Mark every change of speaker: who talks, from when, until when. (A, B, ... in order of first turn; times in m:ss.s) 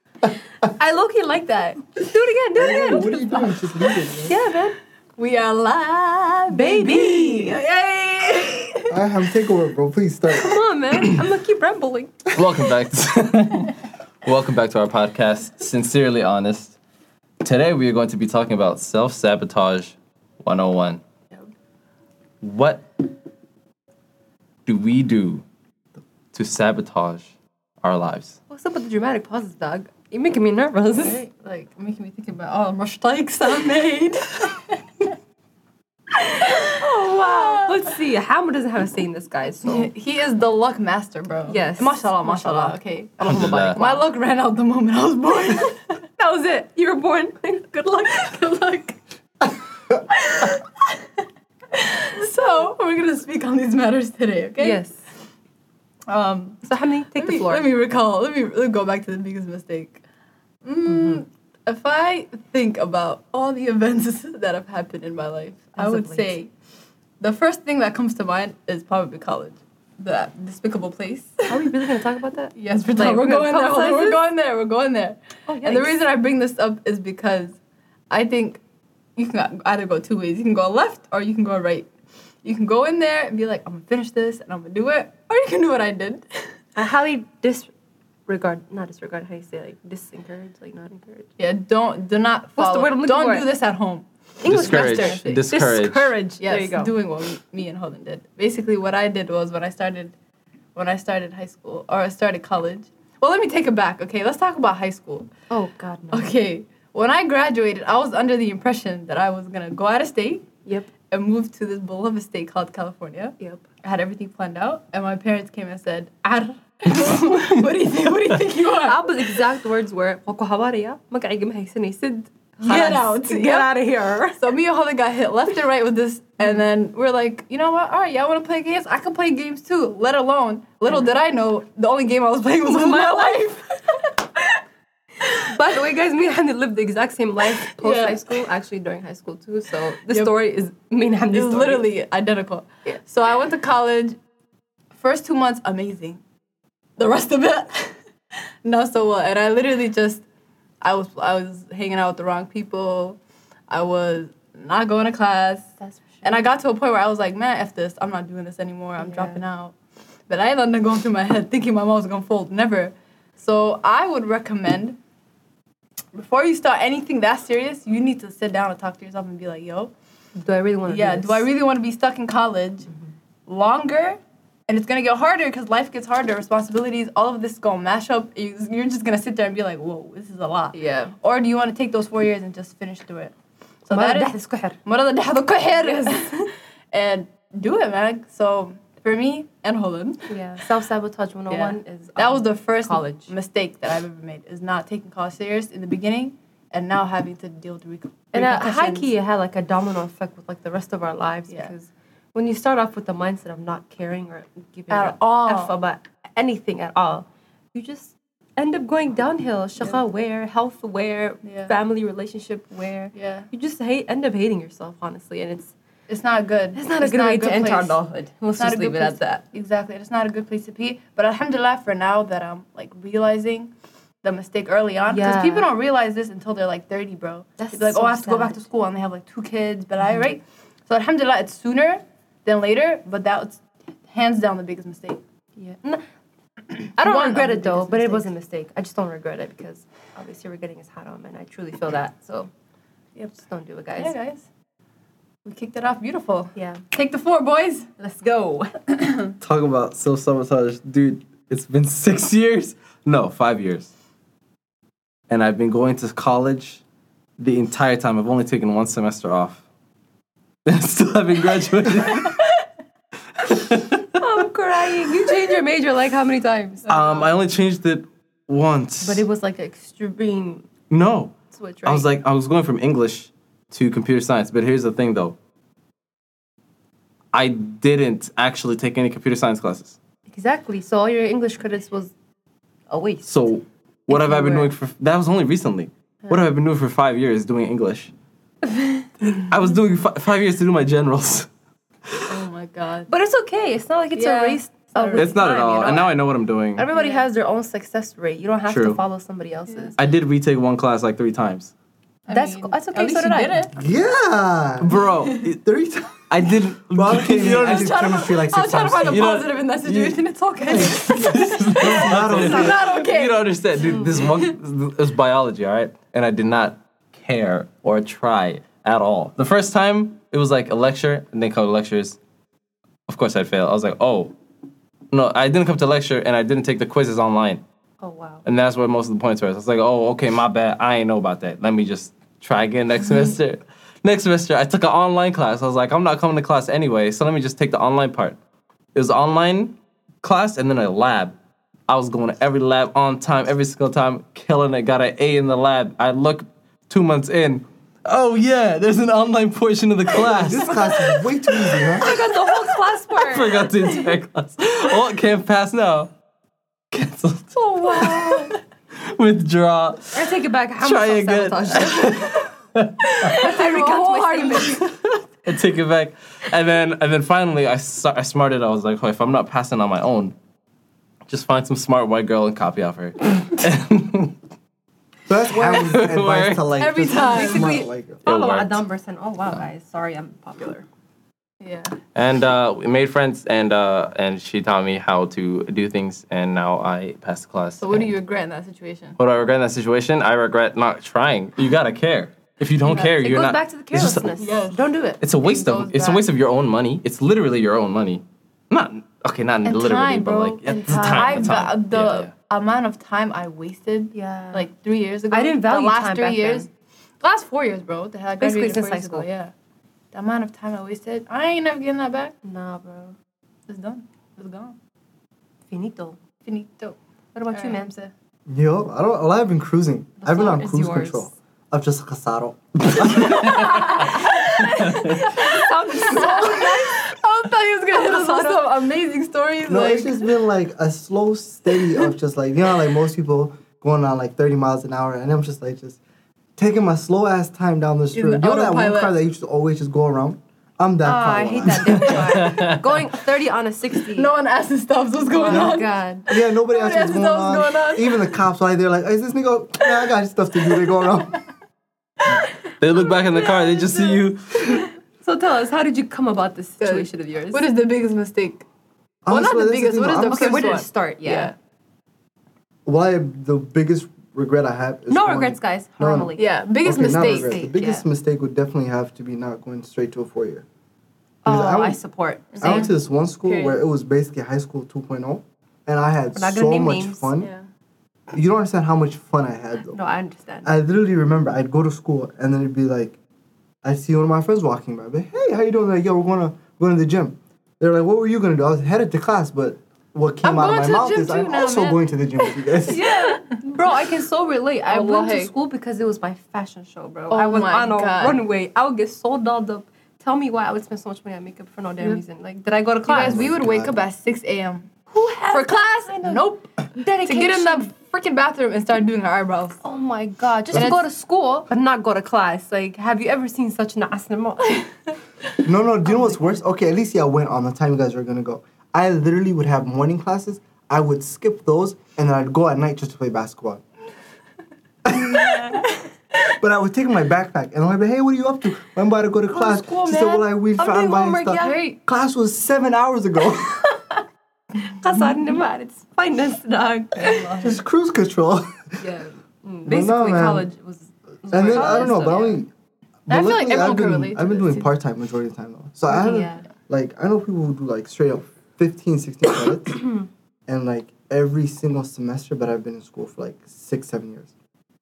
0:00.6-0:04.8 A
0:02.5-0:04.4 B
0:05.2-0:08.9 C
0:06.5-0:07.6 A
0:08.9-0:10.6 B
0:10.4-0:12.3 A
0:12.3-0:16.8 D
0:17.4-0:21.0 D
0:22.4-0:23.0 D
0:24.6-0:25.4 D
0:26.3-0:27.3 D
0:27.8-0:28.4 D
0:28.5-0:31.2 A
0:30.9-0:35.1 C
0:36.1-0:37.8 C
0:36.8-0:39.9 A
0:39.6-0:46.0 C
0:41.5-0:44.1 A
0:43.2-0:43.8 D
0:46.2-0:48.5 A
0:48.2-0:48.9 C
0:50.1-0:51.0 C
0:51.7-0:54.8 C
0:54.6-0:55.0 A
0:56.1-1:00.0 C
0:56.6-0:57.7 A
1:00.6-1:06.5 C
1:00.9-1:01.2 A
1:05.7-1:06.4 A
1:07.2-1:11.6 C
1:11.5-1:14.2 A
1:12.6-1:17.5 C
1:15.5-1:16.0 A
1:18.1-1:18.6 C
1:19.2-1:21.9 C
1:22.4-1:26.6 C
1:26.8-1:27.7 A
1:28.3-1:31.3 A
1:31.4-1:35.6 C
1:32.6-1:33.5 A
1:34.4-1:36.9 A
1:34.4-1:36.2 D
1:36.4-1:40.1 C
1:40.7-1:45.3 C
1:45.5-1:46.3 A
1:46.1-1:50.5 C
1:50.6-1:50.9 A
1:51.0-1:59.3 C
1:58.8-2:04.4 A
2:02.6-2:03.7 C
2:04.4-2:14.4 C
2:10.9-2:11.2 A
2:12.6-2:13.6 A
2:15.4-2:21.9 A
2:17.6-2:18.4 C
2:20.1-2:20.3 C
2:21.3-2:24.2 C
2:24.9-2:26.2 C
2:27.0-2:28.0 C
2:28.6-2:30.2 C
2:30.8-2:33.2 C
2:33.7-2:35.7 C
2:35.8-2:36.5 A
2:36.2-2:39.7 C
2:39.0-2:39.4 A
2:40.3-2:45.0 C
2:46.1-2:49.9 C
2:50.4-2:51.4 A
2:50.9-2:52.9 C
2:53.4-3:03.3 C
3:00.7-3:01.1 A
3:03.8-3:04.8 A
3:03.8-3:10.3 C
3:05.6-3:06.5 A
3:10.3-3:13.3 A
3:11.5-3:19.1 C
3:18.3-3:35.7 A
3:21.5-3:21.7 C
3:24.9-3:25.7 C
3:31.4-3:31.7 C
3:33.1-3:33.5 C
3:36.1-3:38.0 C
3:36.7-3:39.4 A
3:38.6-3:43.7 C
3:44.2-3:55.2 C
3:45.1-3:45.7 A
3:47.6-3:48.6 A
3:50.0-3:50.3 A
3:55.6-3:56.0 A
3:57.0-4:02.5 A
3:57.0-3:58.3 C
4:03.2-4:04.1 A
4:04.0-4:04.4 C
4:05.4-4:07.9 C
4:06.6-4:06.8 A
4:08.0-4:08.8 A
4:08.9-4:09.3 C
4:09.4-4:13.9 D
4:15.3-4:16.8 D
4:17.4-4:19.6 D
4:20.6-4:22.4 D
4:23.4-4:24.2 D
4:24.2-4:26.9 A
4:26.9-4:29.2 D
4:26.9-4:27.3 C
4:29.0-4:30.6 A
4:30.9-4:35.4 D
4:31.5-4:32.1 A
4:37.3-4:40.0 D
4:40.3-4:42.1 A
4:42.9-4:43.5 A
4:43.2-4:48.1 D
4:44.1-4:44.7 A
4:48.7-4:49.1 A
4:49.3-4:51.5 D
4:52.3-4:53.1 C
4:53.1-4:56.2 A
4:54.1-4:55.4 C
4:55.2-4:56.9 D
4:56.8-4:59.9 A
4:56.9-4:57.2 C
4:58.7-4:59.0 D
4:59.7-4:59.9 C
5:00.0-5:01.7 D
5:02.3-5:03.8 C
5:02.3-5:03.7 A
5:03.7-5:05.0 B
5:04.8-5:05.6 D
5:05.6-5:06.3 B
5:06.3-5:08.0 D
5:06.8-5:09.4 B
5:07.5-5:14.5 C
5:09.1-5:22.2 D
5:10.6-5:12.8 B
5:13.8-5:14.4 A
5:23.1-5:24.3 D
5:25.1-5:27.6 D
5:28.0-5:28.4 A
5:28.4-5:38.4 D
5:38.9-5:41.4 D
5:41.9-5:56.1 D
5:50.1-5:52.1 B
5:52.0-5:53.7 A
5:56.9-6:00.3 D
5:57.6-5:58.6 C
6:00.1-6:02.4 A
6:00.8-6:03.4 D
6:03.2-6:04.9 C
6:03.3-6:04.8 A
6:04.8-6:10.3 D
6:11.3-6:14.4 D
6:15.3-6:18.2 B
6:15.5-6:16.6 D
6:16.8-6:17.8 C
6:17.1-6:20.8 A
6:18.2-6:18.8 D
6:21.6-6:22.0 C
6:22.1-6:28.1 D
6:27.8-6:29.2 C
6:29.2-6:34.3 D
6:32.8-6:35.2 A
6:34.4-6:36.2 C
6:35.2-6:42.3 D
6:39.6-6:46.7 C
6:40.9-6:41.6 A
6:44.1-6:44.7 A
6:45.3-6:46.7 A
6:47.2-6:49.5 C
6:48.4-6:49.3 A
6:50.1-6:52.3 C
6:52.4-6:53.1 A
6:53.7-6:54.7 C
6:55.7-6:56.2 A
6:56.4-6:57.0 C
6:57.3-6:58.1 A
6:57.5-6:58.1 C
6:58.5-7:03.8 B
7:00.2-7:01.3 A
7:03.0-7:03.7 D
7:03.2-7:10.3 C
7:03.9-7:07.0 A
7:04.9-7:05.2 D
7:07.9-7:08.7 A
7:09.7-7:16.0 B
7:16.6-7:22.2 B
7:18.1-7:19.1 C
7:21.0-7:24.3 A
7:22.0-7:22.6 C
7:22.2-7:22.8 D
7:24.1-7:28.3 C
7:25.2-7:26.2 A
7:25.5-7:31.4 B
7:32.8-7:34.8 D
7:33.0-7:34.2 C
7:34.8-7:37.8 A
7:36.8-7:38.6 C
7:39.2-7:40.8 B
7:39.3-7:41.5 C
7:40.3-7:41.5 A
7:42.8-7:46.3 B
7:45.1-7:48.0 A
7:46.3-7:47.7 C
7:46.8-7:50.6 B
7:51.4-7:52.9 A
7:51.4-7:52.0 B
7:52.5-7:53.8 C
7:52.6-7:57.5 B
7:56.4-7:57.3 A
7:57.4-7:57.7 C
7:58.3-8:00.0 B
7:59.9-8:00.7 A
8:00.6-8:03.2 B
8:03.8-8:13.0 B
8:10.4-8:13.6 C
8:12.9-8:23.5 A
8:14.8-8:15.5 C
8:17.3-8:18.4 C
8:23.0-8:24.9 C
8:23.1-8:24.0 B
8:25.1-8:27.9 A
8:25.5-8:26.7 C
8:27.2-8:29.8 C
8:29.8-8:34.9 A
8:30.7-8:31.0 B
8:30.7-8:31.0 C
8:35.6-8:43.8 B
8:45.0-8:45.8 B
8:46.6-8:53.8 B
8:49.5-8:51.8 A
8:51.6-8:52.0 C
8:53.8-8:54.2 A
8:54.8-8:57.6 A
8:57.2-8:57.8 C
8:57.6-8:59.0 B
8:59.0-9:02.6 A
8:59.8-9:00.7 B
9:01.5-9:02.7 B
9:01.6-9:02.4 C
9:03.3-9:10.0 B
9:03.3-9:04.9 C
9:06.1-9:06.6 A
9:10.7-9:14.5 B